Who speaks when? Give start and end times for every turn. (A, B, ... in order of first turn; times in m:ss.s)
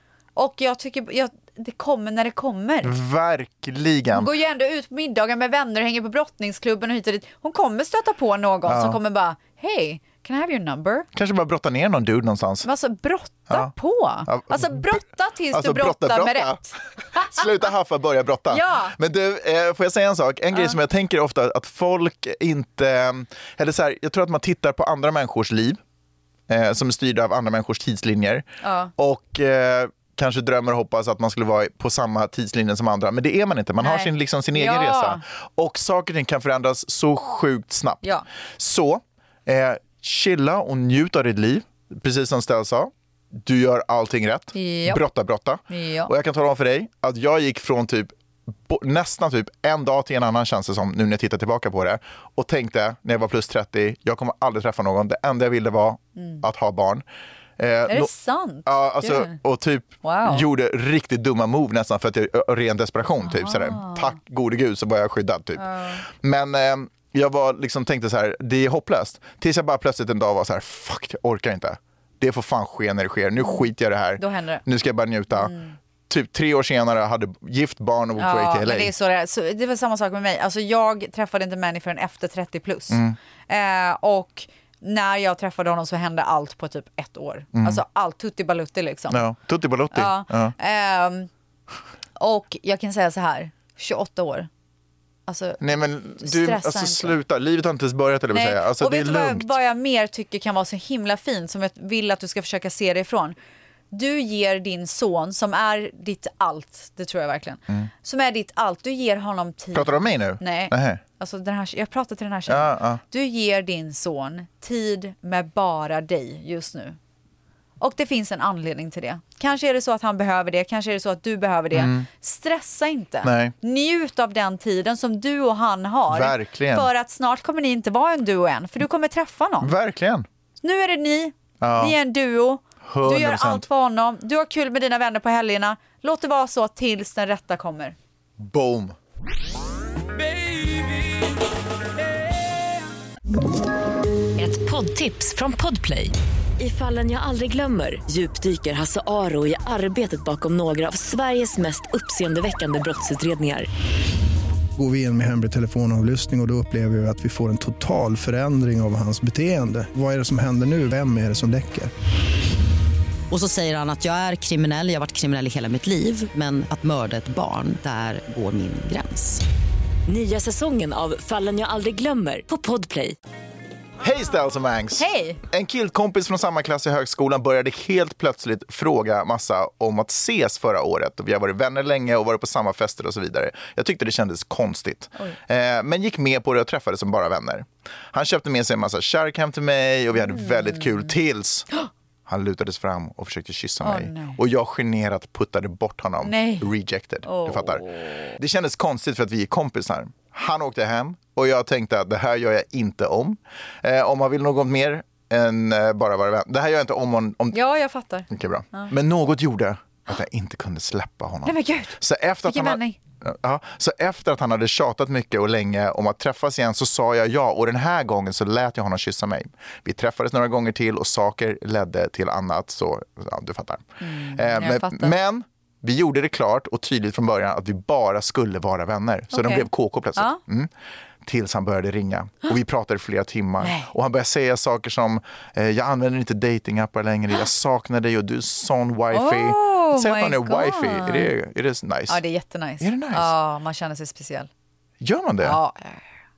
0:00.4-0:02.9 A
0:02.8-0:04.3 B
0:04.1-0:11.1 A
0:08.7-0:09.0 B
0:11.1-0:12.7 B
0:12.6-0:17.4 A
0:14.3-0:25.8 B
0:18.5-0:18.9 A
0:26.5-0:38.0 B
0:28.6-0:28.9 A
0:33.8-0:35.2 A
0:38.6-0:48.1 B
0:44.6-0:45.0 A
0:45.7-0:46.1 A
0:48.7-0:57.0 B
0:56.2-0:56.4 A
0:57.6-0:58.1 B
0:57.9-0:59.4 A
0:58.7-1:15.5 B
1:00.0-1:00.4 A
1:03.2-1:04.2 A
1:05.6-1:06.0 A
1:14.2-1:14.6 A
1:15.3-1:15.8 A
1:16.1-1:18.9 B
1:18.2-1:29.2 A
1:22.9-1:23.2 B
1:27.6-1:27.8 B
1:29.1-1:30.5 B
1:29.9-1:31.3 A
1:32.2-1:34.5 A
1:35.3-1:35.6 A
1:35.6-1:39.5 B
1:36.2-1:37.2 A
1:38.3-1:43.4 A
1:43.9-1:57.0 A
1:49.7-1:51.0 B
1:52.5-1:53.0 B
1:57.8-2:09.7 A
2:01.7-2:02.1 B
2:03.2-2:03.6 B
2:06.1-2:06.9 B
2:09.6-2:10.3 B
2:10.6-2:18.0 A
2:11.6-2:12.0 B
2:12.8-2:13.6 B
2:18.4-2:19.0 B
2:24.4-2:33.7 C
2:34.8-2:41.9 D
2:43.3-2:49.4 E
2:50.1-2:53.2 C
2:54.0-3:11.7 B
2:55.0-2:55.4 A
3:10.2-3:11.0 A
3:12.3-3:27.6 B
3:13.8-3:14.4 A
3:16.2-3:16.7 A
3:17.2-3:18.3 A
3:27.5-3:28.9 A
3:28.3-3:50.7 B
3:31.4-3:33.0 A
3:44.0-3:45.1 A
3:49.3-3:50.4 A
3:51.2-4:02.2 B
3:53.6-3:53.9 A
3:59.1-4:01.3 A
4:02.1-4:04.5 A
4:02.8-4:03.3 B
4:05.0-4:05.6 B
4:05.4-4:06.1 A